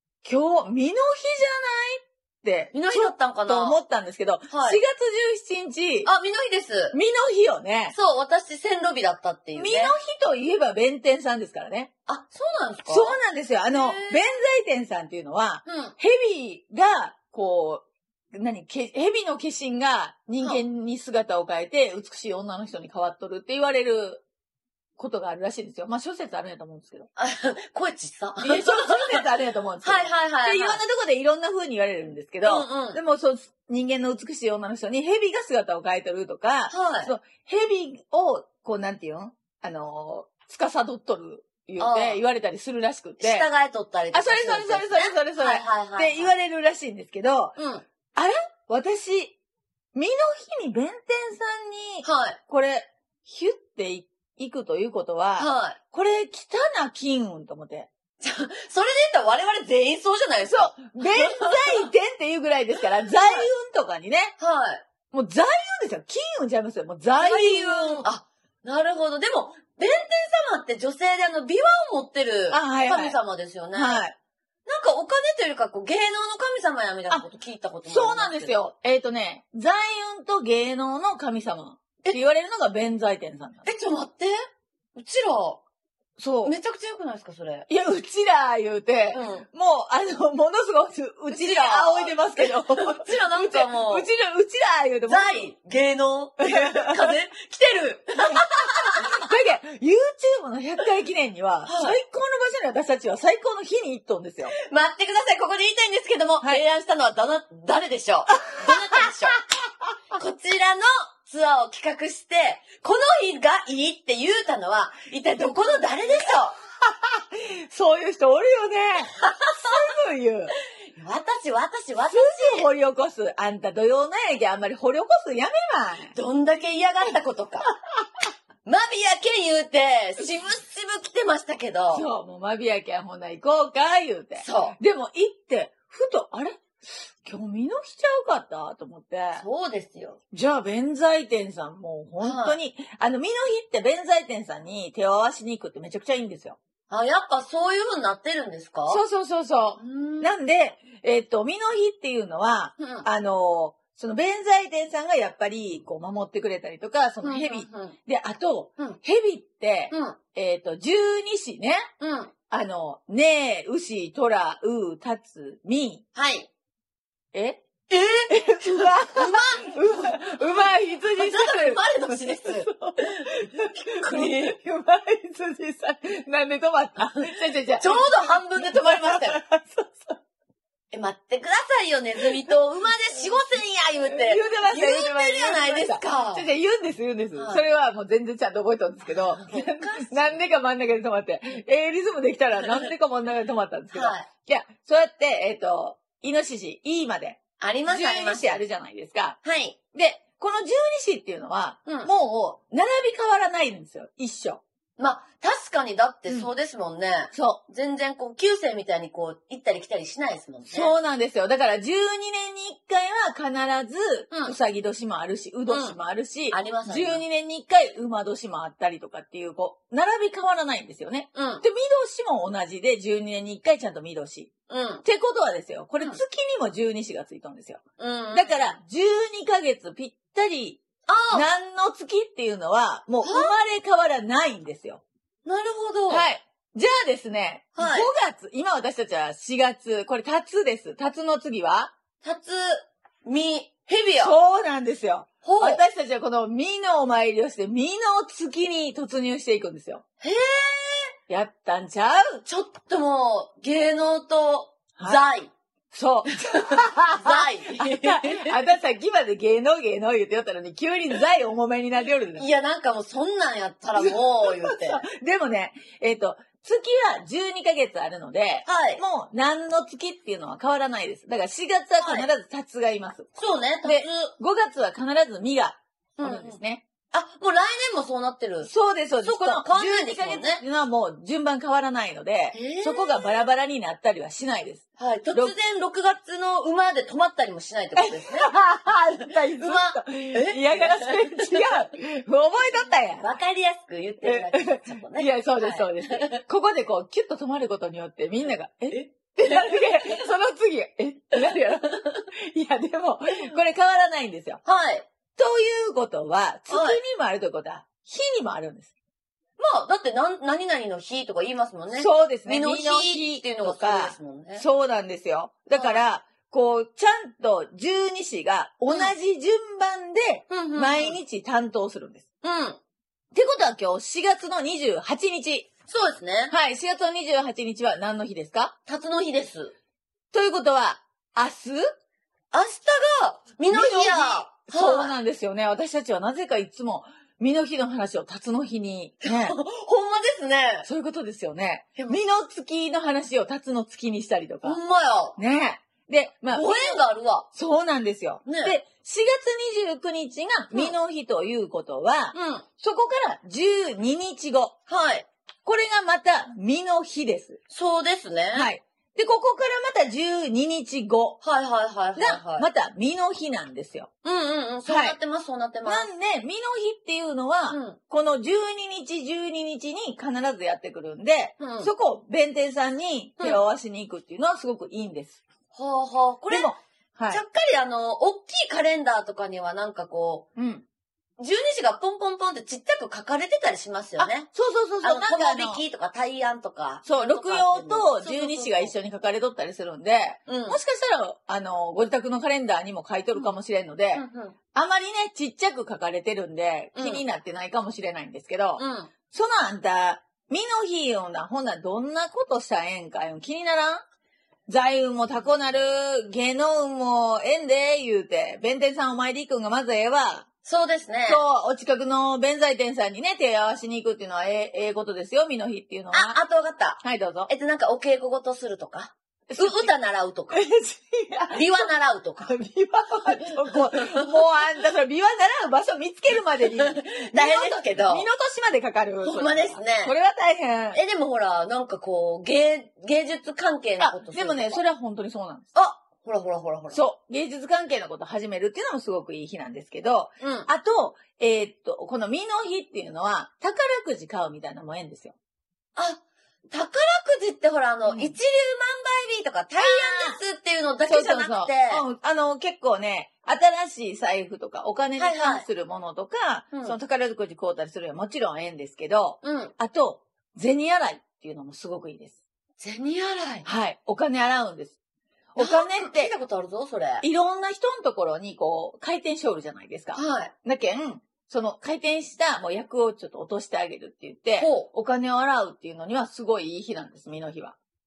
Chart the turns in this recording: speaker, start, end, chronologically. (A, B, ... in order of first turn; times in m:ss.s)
0:00.2-0:06.1 A
0:02.7-0:03.8 B
0:04.5-0:04.8 B
0:06.0-0:07.0 B
0:06.9-0:08.0 A
0:07.9-0:10.0 B
0:09.6-0:11.9 A
0:12.1-0:13.2 B
0:12.9-0:24.2 A
0:13.7-0:14.2 B
0:15.6-0:16.0 B
0:25.0-0:27.1 A
0:27.2-0:29.3 B
0:28.4-0:43.5 A
0:29.8-0:30.8 B
0:32.4-0:33.0 B
0:36.7-0:37.1 B
0:41.8-0:42.2 B
0:43.2-0:46.3 B
0:44.1-0:47.6 A
0:47.6-0:47.8 B
0:48.2-0:49.4 A
0:49.9-0:57.9 A
0:52.0-0:52.4 B
0:55.4-0:55.8 B
0:58.2-1:01.9 B
1:00.5-1:04.3 A
1:03.1-1:03.5 B
1:04.4-1:04.8 B
1:05.1-1:08.1 A
1:07.2-1:14.0 B
1:12.5-1:13.2 A
1:13.8-1:14.1 A
1:14.7-1:18.6 B
1:17.9-1:23.7 A
1:23.6-1:24.4 B
1:25.0-1:25.6 B
1:26.2-1:26.6 A
1:26.4-1:27.7 B
1:27.7-1:35.5 A
1:29.1-1:29.5 B
1:31.3-1:34.1 B
1:35.1-1:39.3 B
1:36.5-1:37.1 A
1:38.3-1:44.5 A
1:41.7-1:42.0 B
1:44.6-1:49.4 B
1:48.5-1:49.4 A
1:50.1-1:56.6 B
1:56.9-2:00.5 A
1:59.2-1:59.8 B
2:01.0-2:02.7 B
2:02.0-2:06.2 A
2:06.1-2:07.7 B
2:08.6-2:12.1 B
2:11.9-2:19.4 A
2:14.4-2:14.8 B
2:19.4-2:20.2 B
2:20.3-2:26.6 A
2:22.2-2:22.6 B
2:26.9-2:29.0 B
2:28.9-2:41.9 A
2:29.8-2:30.4 B
2:32.8-2:33.1 B
2:37.2-2:38.0 B
2:39.9-2:40.2 B
2:42.0-2:42.3 B
2:42.5-2:46.0 A
2:46.2-2:46.5 B
2:47.3-2:47.6 A
2:47.9-2:54.6 B
2:48.3-3:00.2 A
2:57.0-2:59.4 B
3:00.9-3:06.5 B
3:04.0-3:19.4 A
3:07.4-3:07.6 B
3:09.0-3:10.4 B
3:12.6-3:12.9 B
3:13.9-3:14.3 B
3:17.6-3:18.6 B
3:19.4-3:19.8 B
3:19.9-3:24.6 A
3:25.0-3:30.9 B
3:27.3-3:27.6 A
3:30.7-3:44.5 A
3:34.3-3:34.6 B
3:35.7-3:36.0 B
3:36.5-3:37.2 B
3:41.3-3:41.6 B
3:44.7-3:45.0 B
3:45.0-3:47.8 A
3:48.0-3:48.8 B
3:48.3-3:50.8 A
3:51.1-3:51.5 B
3:51.3-3:55.0 A
3:53.2-3:53.6 B
3:55.4-3:56.3 B
3:56.1-4:01.9 A
3:57.8-3:58.1 B
4:02.2-4:04.4 B
4:04.2-4:10.0 A
4:05.4-4:05.8 B
4:10.2-4:11.1 B
4:11.3-4:12.4 A
4:12.4-4:15.5 B
4:15.0-4:15.3 A
4:15.9-4:22.5 A
4:16.3-4:18.6 B
4:22.4-4:25.0 B
4:24.0-4:33.3 A
4:28.6-4:29.0 B
4:32.0-4:32.3 B
4:33.4-4:34.3 B
4:33.8-4:36.8 A
4:36.2-4:36.6 B
4:37.1-4:38.7 B
4:38.6-4:45.5 A
4:39.2-4:40.6 B
4:42.5-4:43.4 B
4:45.0-4:51.9 B
4:48.0-4:53.3 A
4:52.6-4:56.4 B
4:54.2-5:04.6 A
4:58.9-5:00.2 B
5:01.4-5:02.3 B
5:04.6-5:05.1 B
5:05.4-5:08.9 A
5:06.7-5:07.0 B
5:09.6-5:14.6 B
5:11.9-5:22.2 A
5:15.7-5:16.0 B
5:18.9-5:19.1 B
5:20.5-5:21.2 B
5:22.4-5:22.8 B
5:23.3-5:25.7 A
5:25.9-5:26.5 B
5:26.5-5:28.8 A
5:28.9-5:29.7 B
5:30.3-5:31.9 A
5:32.5-5:35.2 B
5:33.7-5:39.6 A
5:39.2-5:40.9 B
5:40.8-5:44.8 A
5:44.6-5:45.4 B
5:45.4-5:47.0 A
5:46.5-5:47.5 B
5:47.5-5:54.7 A
5:48.4-5:48.8 B
5:52.3-5:52.6 B
5:54.9-5:55.3 B
5:55.6-5:57.6 A
5:57.7-5:58.7 B
5:58.5-6:01.4 A
6:01.4-6:02.7 B
6:02.2-6:04.1 A
6:04.2-6:06.1 B
6:04.8-6:05.2 A
6:05.8-6:15.4 A
6:07.7-6:08.0 B
6:11.6-6:11.9 B
6:15.7-6:16.7 B
6:16.5-6:17.4 A
6:17.3-6:20.5 B
6:20.6-6:20.8 A
6:21.4-6:24.5 B
6:24.2-6:25.8 A
6:25.0-6:28.9 B
6:27.0-6:44.0 A
6:30.5-6:30.8 B
6:34.1-6:34.6 B
6:37.0-6:37.2 B
6:38.8-6:39.1 B
6:44.7-6:50.5 A
6:50.6-6:51.4 B
6:51.3-6:56.4 A
6:56.1-7:00.7 B
6:57.0-6:57.5 A
6:59.5-6:59.9 A
7:00.5-7:01.9 A
7:01.5-7:02.5 B
7:02.4-7:11.0 A
7:03.5-7:04.3 B
7:06.6-7:08.3 B
7:09.2-7:10.1 B
7:10.9-7:14.8 B
7:14.0-7:15.7 A
7:15.7-7:17.0 B
7:16.9-7:25.4 A
7:20.4-7:20.7 B
7:26.0-7:32.0 B
7:28.1-7:28.4 A
7:29.8-7:30.4 A
7:31.1-7:42.4 A
7:35.2-7:35.7 B
7:39.4-7:39.7 B
7:42.8-7:43.7 B
7:43.6-7:45.0 A
7:45.6-7:46.3 A
7:45.6-7:47.3 B
7:47.2-7:57.8 A
7:50.1-7:50.5 B
7:54.6-7:54.9 B